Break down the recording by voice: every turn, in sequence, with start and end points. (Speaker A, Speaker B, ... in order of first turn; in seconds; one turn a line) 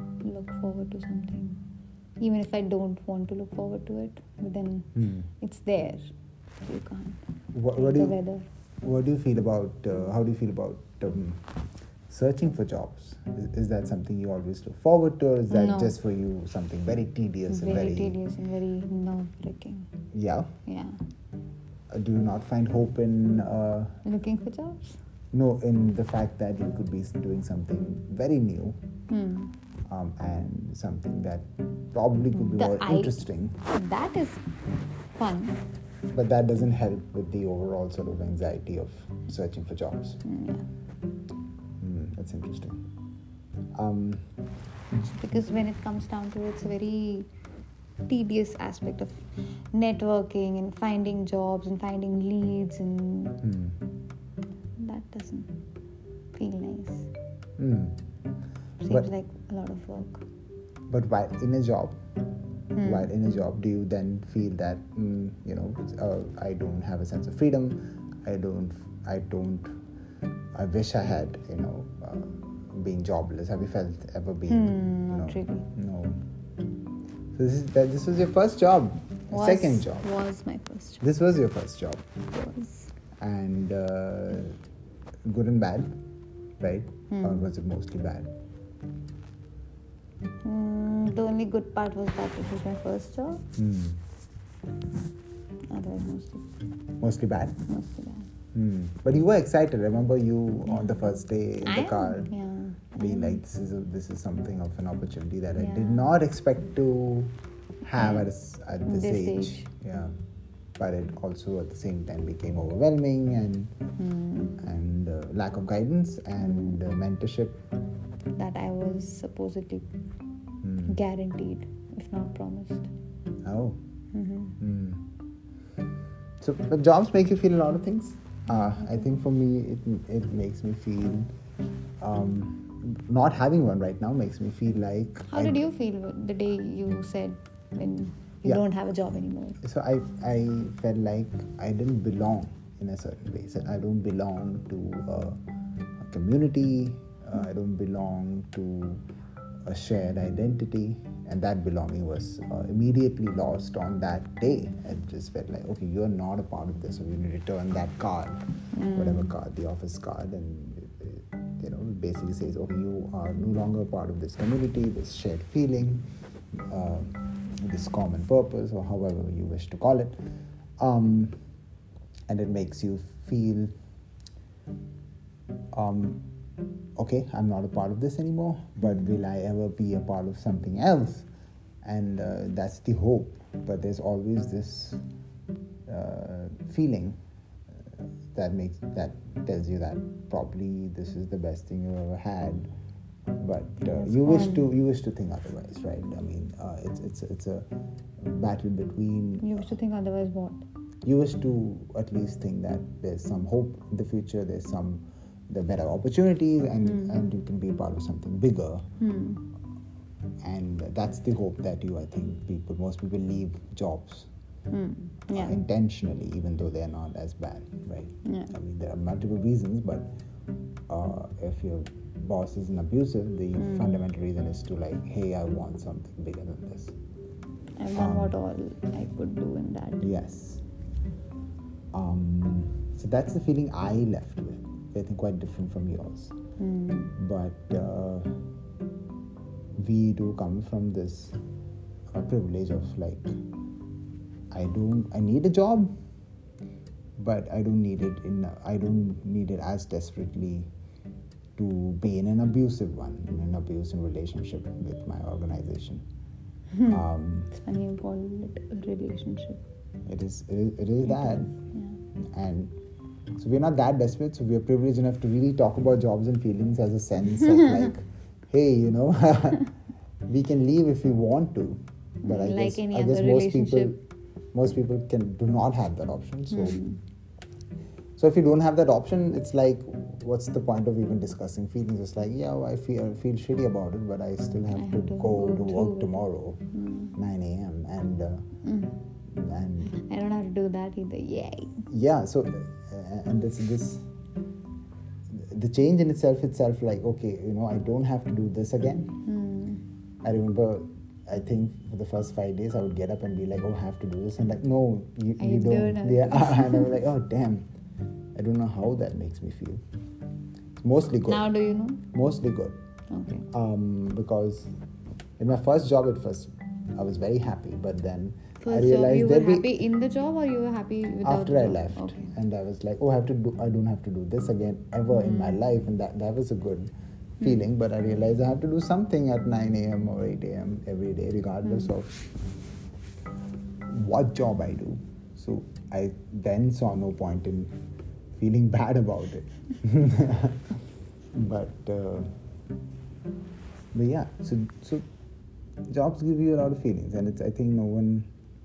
Speaker A: 0.2-1.6
Speaker A: 2.2-6.1
Speaker B: 5.0-5.2
Speaker A: 6.6-8.4
Speaker B: 7.5-8.2
Speaker B: 8.8-11.5
Speaker B: 12.1-18.2
Speaker A: 15.5-16.0
Speaker A: 17.5-19.9
Speaker B: 20.1-20.5
Speaker A: 20.6-21.0
Speaker B: 21.9-24.0
Speaker A: 24.0-25.0
Speaker B: 25.3-28.8
Speaker A: 29.1-29.5
Speaker B: 29.9-33.6
Speaker A: 32.3-34.5
Speaker A: 35.1-35.6
Speaker B: 36.1-40.2
Speaker A: 40.2-40.7
Speaker B: 41.8-42.8
Speaker B: 43.7-44.3
Speaker A: 45.0-47.3
Speaker A: 48.1-53.4
Speaker B: 53.4-53.8
Speaker A: 54.8-55.5
Speaker A: 56.3-57.1
Speaker B: 57.6-58.0
Speaker A: 58.8-60.2
Speaker B: 60.9-62.0
Speaker A: 62.7-63.1
Speaker B: 62.8-69.7
Speaker B: 70.5-76.2
Speaker A: 74.5-75.6
Speaker B: 77.3-80.1
Speaker A: 79.3-81.0
Speaker B: 81.0-82.0
Speaker A: 82.3-82.9
Speaker B: 83.2-84.6
Speaker B: 85.2-86.0
Speaker B: 86.6-88.3
Speaker A: 87.1-87.5
Speaker A: 90.4-93.4
Speaker B: 93.6-94.0
Speaker A: 95.7-96.5
Speaker B: 97.0-97.6
Speaker A: 97.7-98.3
Speaker B: 98.5-102.3
Speaker A: 100.7-101.1
Speaker A: 101.6-103.4
Speaker B: 103.0-107.3
Speaker A: 105.5-106.2
Speaker B: 107.8-110.1
Speaker A: 107.9-108.3
Speaker A: 108.8-109.7
Speaker B: 110.8-113.7
Speaker A: 114.0-114.6
Speaker B: 114.6-117.6
Speaker A: 116.4-116.8
Speaker A: 118.3-119.9
Speaker B: 120.6-121.0
Speaker A: 120.8-122.9
Speaker B: 123.4-123.8
Speaker A: 124.1-124.6
Speaker B: 124.6-125.0
Speaker B: 126.4-131.3
Speaker A: 128.5-129.2
Speaker B: 132.0-135.6
Speaker A: 135.2-139.6
Speaker B: 139.6-145.4
Speaker B: 146.0-149.0
Speaker B: 149.7-166.0
Speaker A: 158.7-159.3
Speaker B: 166.7-170.2
Speaker B: 170.8-171.3
Speaker B: 172.3-173.7
Speaker B: 175.7-176.2
Speaker B: 177.0-181.3
Speaker A: 178.8-179.2
Speaker B: 181.8-185.0
Speaker B: 185.9-187.2
Speaker B: 188.3-192.7
Speaker B: 193.4-199.8
Speaker A: 193.8-194.7
Speaker A: 199.4-200.6
Speaker B: 201.0-208.8
Speaker A: 206.8-207.1
Speaker A: 209.0-209.4
Speaker B: 210.4-214.3
Speaker A: 214.7-215.6
Speaker B: 215.3-220.1
Speaker A: 218.2-218.5
Speaker B: 220.9-226.9
Speaker A: 223.6-224.0
Speaker A: 227.8-230.1
Speaker B: 227.9-228.3
Speaker B: 230.0-230.6
Speaker B: 231.9-236.3
Speaker A: 236.6-237.1
Speaker B: 237.2-238.3
Speaker B: 239.8-241.4
Speaker B: 242.1-243.3
Speaker B: 244.5-245.9
Speaker B: 247.2-250.7
Speaker B: 251.6-256.0
Speaker A: 256.7-259.6
Speaker B: 256.9-257.5
Speaker B: 260.1-261.6
Speaker A: 261.0-262.0
Speaker B: 262.3-262.7
Speaker B: 263.4-269.7
Speaker B: 270.3-274.0
Speaker A: 272.2-274.0
Speaker B: 274.5-276.8
Speaker A: 276.5-277.0
Speaker B: 278.2-288.5
Speaker A: 284.7-286.2
Speaker A: 286.7-287.1
Speaker A: 288.6-289.0
Speaker B: 289.3-289.9
Speaker A: 289.9-291.9
Speaker B: 291.9-294.1
Speaker B: 295.3-299.2
Speaker A: 299.2-299.8
Speaker B: 300.2-307.7
Speaker A: 305.4-306.9
Speaker B: 308.3-309.8
Speaker B: 310.8-311.5
Speaker A: 311.2-312.0
Speaker B: 312.1-312.8
Speaker A: 313.1-313.4
Speaker B: 313.5-314.7
Speaker B: 315.4-319.7
Speaker A: 318.6-322.3
Speaker B: 321.2-332.2
Speaker A: 325.1-325.6
Speaker B: 333.9-337.7
Speaker B: 338.4-340.7
Speaker B: 341.3-342.3
Speaker B: 343.9-345.0
Speaker B: 345.9-348.3